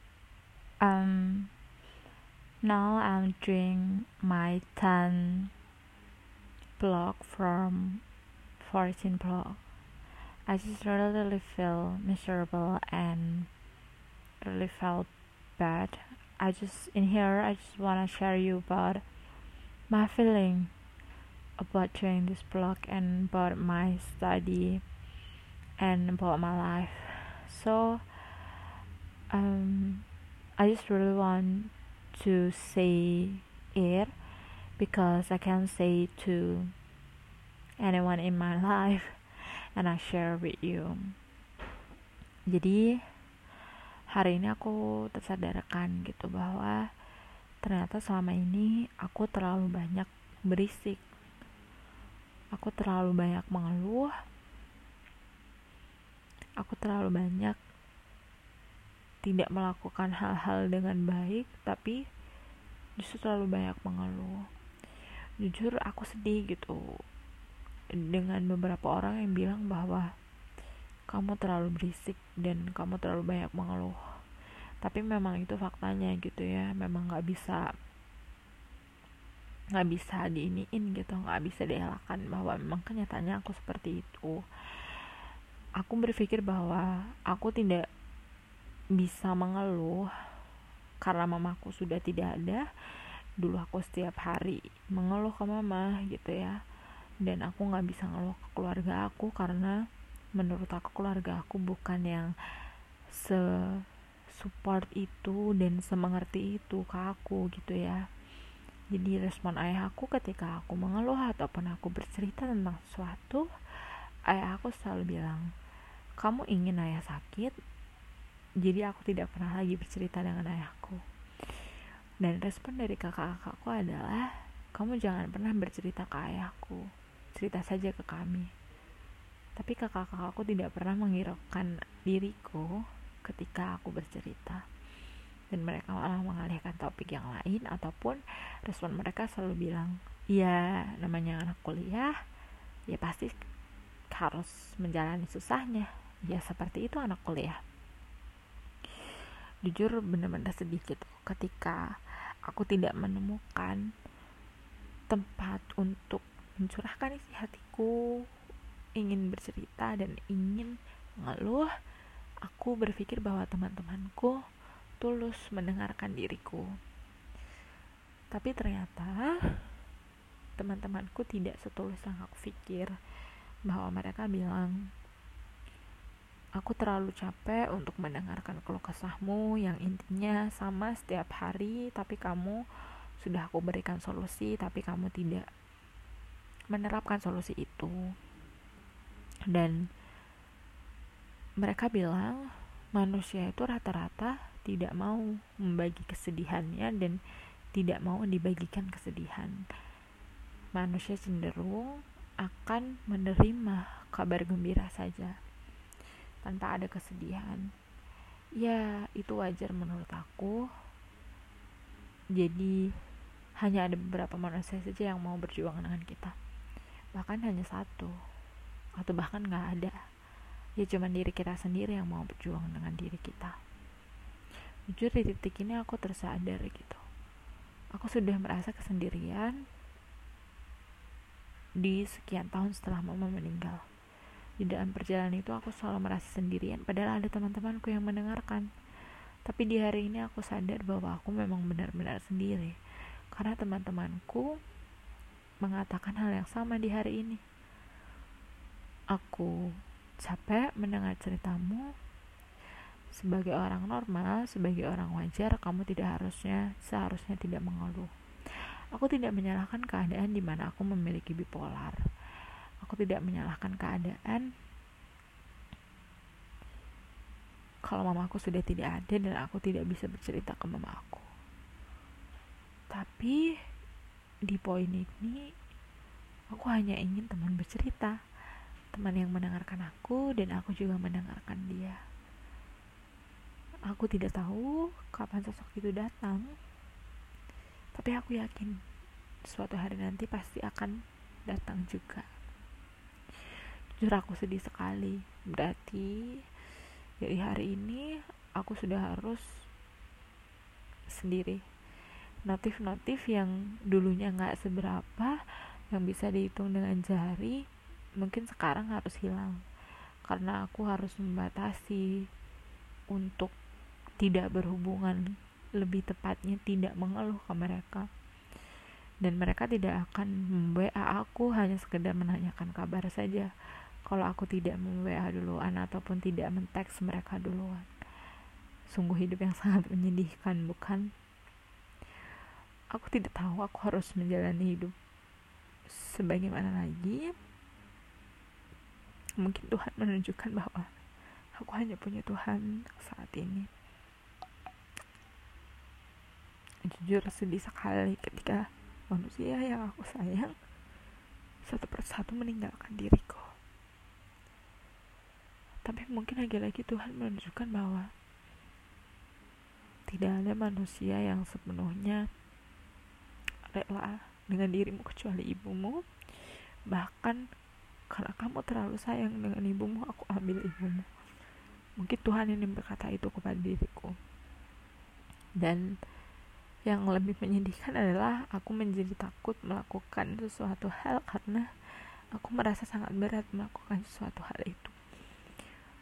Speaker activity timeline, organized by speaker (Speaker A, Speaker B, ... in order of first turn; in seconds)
Speaker A: 0.8-1.5, 2.6-5.5, 6.8-8.0, 8.6-9.6, 10.5-13.5, 14.4-19.0, 19.9-20.7, 21.6-24.8, 25.8-28.0, 29.3-30.0, 30.6-34.1, 34.8-36.7, 37.8-39.1, 39.7-41.1, 42.5-42.8, 44.1-46.8, 47.6-51.0, 52.5-54.1, 56.6-57.6, 59.2-62.0, 63.0-64.4, 65.4-66.8, 68.1-70.1, 71.1-74.0, 74.8-77.6, 79.8-85.1, 85.8-87.9, 89.0-90.1, 91.0-92.7, 93.4-96.6, 97.2-99.8, 100.4-102.3, 103.1-103.8, 104.4-108.0, 108.9-113.5, 114.3-115.5, 116.2-117.5, 118.6-121.0, 122.2-126.8, 127.3-128.5, 129.6-132.7, 133.2-134.6, 135.5-142.1, 142.9-143.3, 144.1-147.6, 149.7-151.8, 152.5-153.8, 155.1-157.9, 159.0-161.7, 162.5-164.4, 165.0-166.7, 168.3-169.3, 170.6-172.9, 173.7-174.8, 176.6-182.6, 183.2-185.5, 186.7-187.9, 189.5-189.8, 191.6-197.2, 197.7-199.6, 200.7-205.3, 206.4-207.7, 208.6-210.7, 212.4-212.8, 213.6-216.3, 217.1-218.1, 219.0-220.0, 220.8-223.6, 224.9-227.0, 227.9-229.6, 231.8-233.8, 234.6-238.7, 239.4-242.7, 243.3-244.6, 245.6-247.4, 249.1-249.5, 250.2-251.9, 253.1-262.0, 262.8-264.5, 267.9-271.3, 272.9-273.4, 274.5-275.4, 276.5-278.2, 278.9-282.0, 283.9-286.5, 287.9-288.8, 289.5-292.3, 294.0-296.1, 297.2-298.1, 298.6-299.4, 301.1-301.6, 302.4-305.4, 305.9-307.6, 308.2-309.6, 310.2-312.1, 313.1-313.5, 314.2-315.2, 315.8-318.1, 319.2-323.5, 324.1-327.9, 328.9-331.1, 332.9-334.9, 335.9-337.3, 339.4-340.9, 341.6-343.7, 346.9-350.5, 351.6-353.5, 355.9-358.1, 360.1-362.2, 363.7-367.4, 368.1-371.1, 372.0-374.1, 375.6-375.9, 376.9-384.9